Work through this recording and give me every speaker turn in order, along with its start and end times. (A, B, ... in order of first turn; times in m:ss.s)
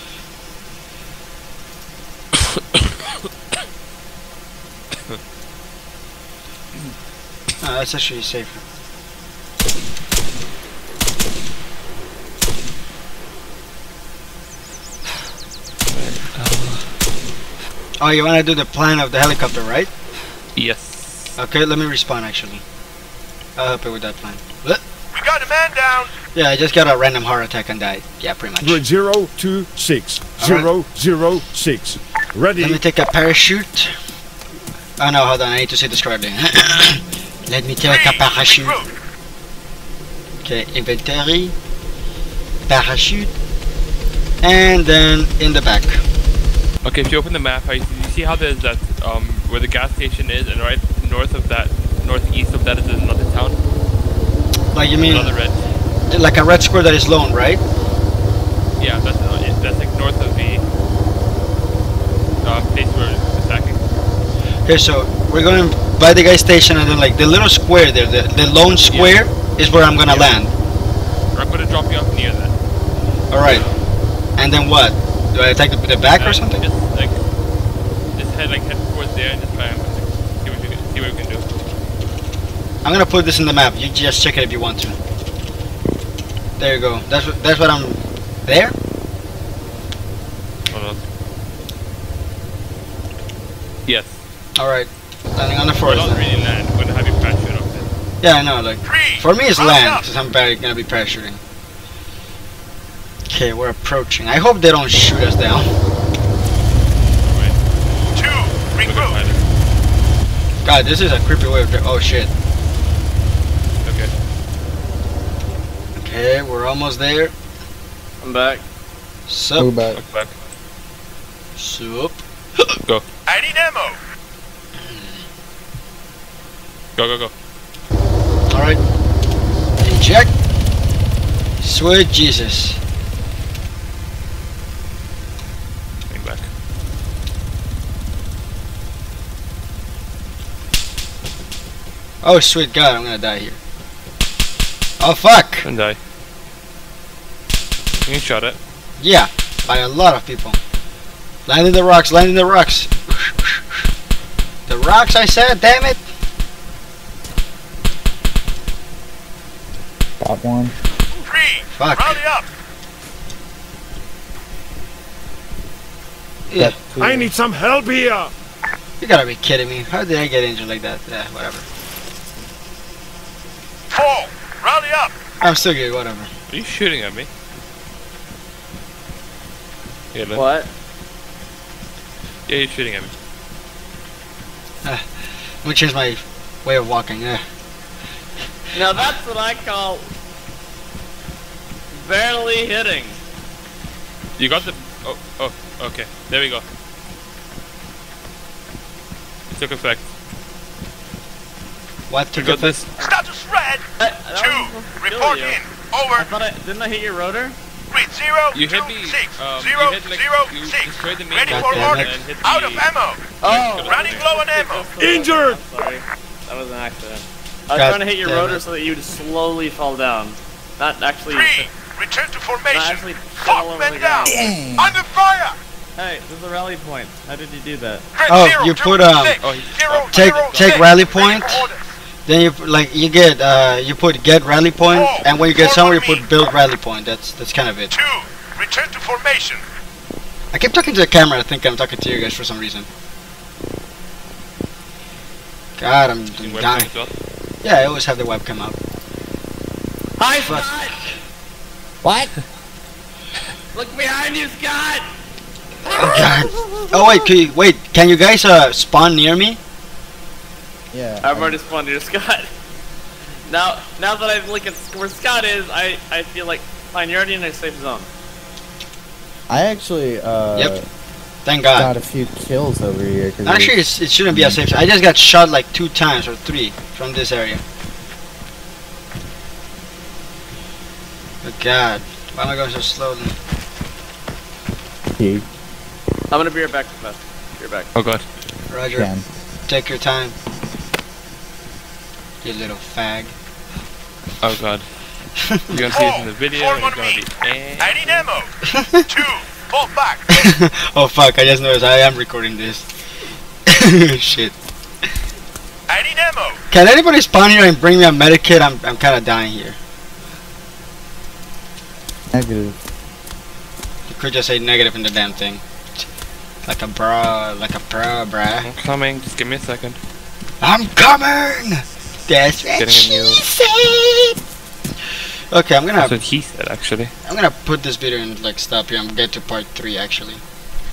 0:07.6-0:08.6 A
0:15.9-0:16.8 B
0:18.0-0:19.9 A
0:20.5-0:21.4 B
0:21.4-0:22.6 A
0:23.6-0:24.8 A
0:25.1-0:26.1 C
0:26.3-0:28.8 A
0:28.6-0:32.8 D
0:30.4-0:30.7 A
0:32.6-0:33.9 A
0:35.0-0:38.8 A
0:37.8-0:38.8 C
0:40.4-0:41.5 A
0:42.7-0:43.3 A
0:44.4-0:46.0 A
0:46.8-0:53.6 B
0:54.7-0:55.4 A
0:55.0-0:55.6 B
0:56.1-0:57.6 A
0:58.8-1:00.6 B
1:02.4-1:03.8 B
1:04.6-1:10.5 A
1:08.9-1:09.2 B
1:10.0-1:10.4 B
1:11.3-1:12.5 B
1:13.3-1:13.6 A
1:14.4-1:16.6 A
1:16.1-1:17.2 B
1:18.2-1:21.7 B
1:22.8-1:25.0 A
1:26.6-1:28.7 A
1:30.7-1:31.1 B
1:33.8-1:34.2 B
1:34.6-1:36.2 A
1:35.8-1:37.9 B
1:38.2-1:41.4 A
1:38.9-1:40.0 C
1:43.3-1:45.7 A
1:47.3-1:47.6 B
1:48.2-1:49.2 C
1:48.8-1:49.5 B
1:50.6-1:52.3 A
1:53.8-1:54.1 B
1:56.0-1:57.3 A
1:58.2-1:58.6 E
1:59.3-1:59.7 A
1:59.6-2:00.0 F
1:59.9-2:00.4 B
2:01.6-2:02.6 A
2:03.3-2:04.0 C
2:04.8-2:05.2 A
2:07.0-2:07.3 B
2:08.5-2:08.8 A
2:09.8-2:10.3 A
2:11.6-2:12.8 A
2:16.1-2:16.5 B
2:22.2-2:23.6 A
2:25.0-2:25.6 A
2:25.6-2:26.0 B
2:28.0-2:28.6 B
2:29.0-2:30.6 A
2:31.4-2:33.6 A
2:34.7-2:36.0 A
2:40.2-2:40.7 F
2:41.3-2:42.4 C
2:41.7-2:42.2 A
2:46.5-2:46.8 A
2:46.6-2:47.3 F
2:47.0-2:48.3 D
2:49.0-2:51.6 A
2:53.9-2:55.1 C
2:55.4-2:56.3 A
2:56.5-2:57.3 B
3:00.1-3:00.4 B
3:00.3-3:00.7 E
3:02.5-3:03.1 B
3:05.6-3:07.4 A
3:08.7-3:10.1 E
3:11.9-3:13.2 E
3:14.4-3:16.6 B
3:19.5-3:20.1 B
3:22.1-3:22.8 A
3:22.3-3:22.9 B
3:23.0-3:23.8 C
3:24.0-3:27.6 E
3:24.4-3:26.2 C
3:27.9-3:34.9 C
3:28.5-3:32.9 B
3:31.5-3:32.2 A
3:33.4-3:41.7 E
3:33.4-3:34.4 B
3:35.0-3:35.6 D
3:37.7-3:38.6 A
3:41.4-3:45.6 C
3:42.7-3:44.5 E
3:44.2-3:45.0 F
3:46.0-3:48.1 E
3:48.2-3:49.4 C
3:48.2-3:49.4 A
3:49.4-3:51.4 B
3:49.9-3:51.8 C
3:50.1-3:51.7 A
3:52.2-3:57.9 A
3:54.9-3:56.2 C
3:57.9-3:59.6 C
4:00.5-4:02.9 A
4:05.8-4:06.9 A
4:06.4-4:07.1 B
4:07.6-4:08.8 A
4:10.2-4:11.0 E
4:10.4-4:10.9 A
4:12.0-4:12.3 F
4:13.7-4:15.1 E
4:15.9-4:19.6 A
4:20.9-4:21.6 F
4:21.2-4:22.5 E
4:23.4-4:28.1 E
4:29.5-4:30.8 F
4:31.4-4:31.9 A
4:31.7-4:34.6 F
4:33.4-4:37.6 A
4:41.4-4:43.3 A
4:45.2-4:45.4 F
4:46.3-4:47.9 E
4:47.9-4:48.2 B
4:48.7-4:49.1 A
4:48.9-4:49.2 F
4:49.7-4:50.3 A
4:52.4-4:53.3 A
4:54.4-4:54.8 B
4:55.5-4:56.0 A
4:55.7-4:58.3 B
4:55.9-4:57.2 C
4:57.8-4:58.5 C
4:58.7-4:59.0 A
4:59.1-5:00.4 C
5:00.3-5:02.8 A
5:03.7-5:04.5 A
5:05.9-5:06.6 C
5:06.7-5:09.8 A
5:12.3-5:12.8 F
5:14.1-5:15.6 A
5:16.6-5:18.7 A
5:18.6-5:20.0 B
5:20.6-5:24.4 A
5:22.7-5:23.4 B
5:25.5-5:26.2 A
5:26.0-5:27.1 B
5:27.2-5:30.4 A